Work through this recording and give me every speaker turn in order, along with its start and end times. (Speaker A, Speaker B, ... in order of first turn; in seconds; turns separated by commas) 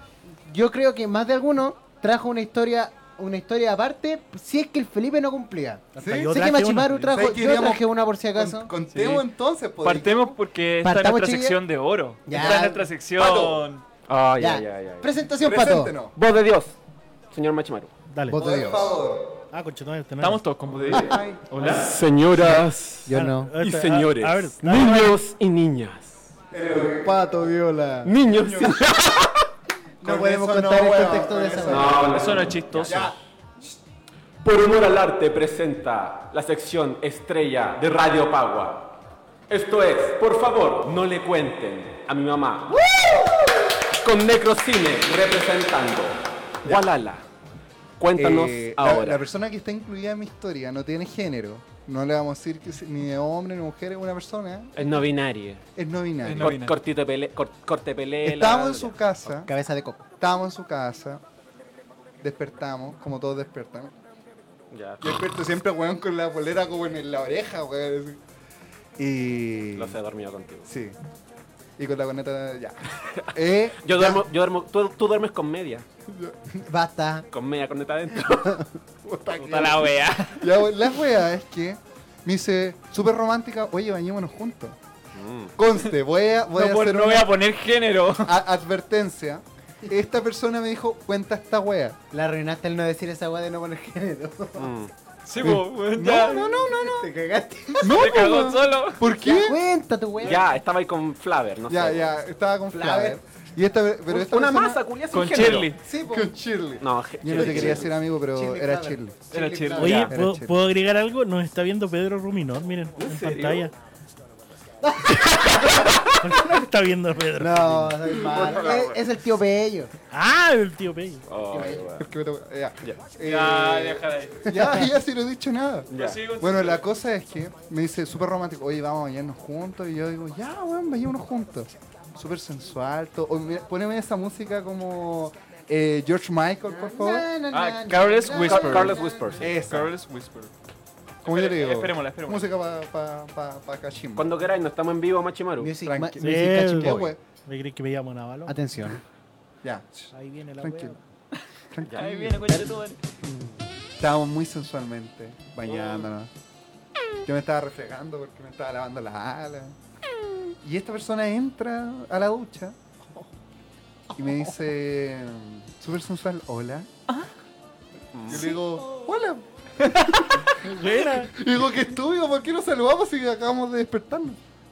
Speaker A: 0.4-8.7, Speaker B: 6.0-7.1, Speaker C: 6.0-6.3, Speaker C: 7.1-10.3, Speaker D: 8.9-9.2, Speaker D: 9.8-13.8, Speaker A: 10.8-11.6, Speaker A: 12.2-12.8, Speaker C: 13.2-13.6, Speaker E: 14.1-15.1, Speaker A: 14.4-15.9, Speaker C: 15.4-16.1, Speaker E: 16.1-16.7, Speaker E: 17.3-17.9, Speaker B: 18.1-18.4, Speaker A: 18.3-18.9, Speaker C: 18.3-19.3, Speaker B: 19.5-20.4, Speaker D: 20.2-21.9, Speaker C: 20.9-21.7, Speaker E: 21.6-26.2, Speaker A: 23.1-23.5, Speaker B: 23.1-25.1, Speaker C: 26.5-27.1, Speaker A: 26.7-28.1, Speaker E: 28.0-29.4, Speaker C: 28.3-28.9, Speaker A: 30.0-32.0, Speaker C: 30.0-33.7, Speaker E: 31.6-32.9, Speaker D: 32.0-33.1, Speaker E: 34.4-38.9, Speaker E: 39.5-43.4, Speaker E: 43.9-47.2, Speaker E: 48.0-49.2, Speaker C: 48.1-54.9, Speaker E: 54.8-55.6, Speaker C: 55.8-56.6, Speaker D: 56.2-56.7, Speaker E: 56.4-59.0, Speaker C: 58.2-59.5, Speaker A: 59.3-60.0, Speaker C: 60.2-61.2, Speaker C: 62.2-63.9, Speaker E: 64.7-65.0, Speaker C: 65.0-68.2, Speaker C: 69.0-70.0, Speaker E: 69.7-70.7, Speaker C: 70.7-71.0, Speaker C: 71.8-74.2, Speaker E: 73.0-75.8, Speaker A: 76.5-77.2, Speaker E: 77.3-78.6, Speaker A: 78.4-78.6, Speaker C: 79.0-84.8, Speaker D: 79.4-80.4, Speaker E: 85.1-85.5, Speaker C: 85.6-87.3, Speaker D: 86.5-88.3, Speaker C: 88.2-92.0, Speaker A: 92.1-94.7, Speaker E: 94.6-94.9, Speaker D: 95.2-96.6, Speaker C: 95.4-97.1, Speaker A: 96.7-98.1, Speaker C: 97.8-99.6, Speaker D: 97.8-99.1, Speaker A: 99.2-100.4, Speaker E: 100.2-102.2, Speaker C: 101.7-104.8, Speaker A: 102.7-103.2, Speaker E: 104.1-105.7, Speaker D: 105.1-105.8, Speaker A: 105.8-106.3, Speaker C: 106.0-109.2, Speaker E: 106.8-107.9, Speaker A: 107.3-110.1, Speaker D: 109.3-110.1, Speaker B: 109.8-113.7, Speaker C: 110.1-110.5, Speaker E: 113.0-113.7, Speaker A: 114.8-115.7, Speaker E: 115.8-116.1, Speaker B: 116.0-118.2, Speaker A: 117.4-119.9, Speaker E: 118.2-119.0, Speaker B: 120.1-121.2, Speaker E: 121.3-122.1, Speaker A: 121.5-121.8, Speaker C: 122.0-137.3, Speaker D: 123.2-124.5, Speaker A: 124.5-124.8, Speaker E: 125.9-126.2, Speaker D: 125.9-126.8, Speaker A: 136.7-139.4, Speaker D: 137.5-140.5, Speaker E: 138.4-139.6, Speaker C: 139.4-139.9, Speaker D: 141.2-142.4, Speaker C: 141.2-144.3, Speaker E: 144.2-145.7, Speaker A: 145.6-147.1, Speaker C: 145.8-147.2, Speaker B: 146.2-148.5, Speaker A: 148.5-149.0, Speaker C: 149.6-150.9, Speaker B: 150.1-151.0, Speaker C: 151.7-152.7, Speaker D: 151.9-153.0, Speaker C: 154.0-156.3, Speaker C: 157.2-159.7, Speaker C: 160.6-162.8, Speaker C: 164.2-166.9, Speaker E: 168.1-168.5, Speaker C: 168.3-174.4, Speaker D: 169.8-170.3, Speaker B: 170.6-171.3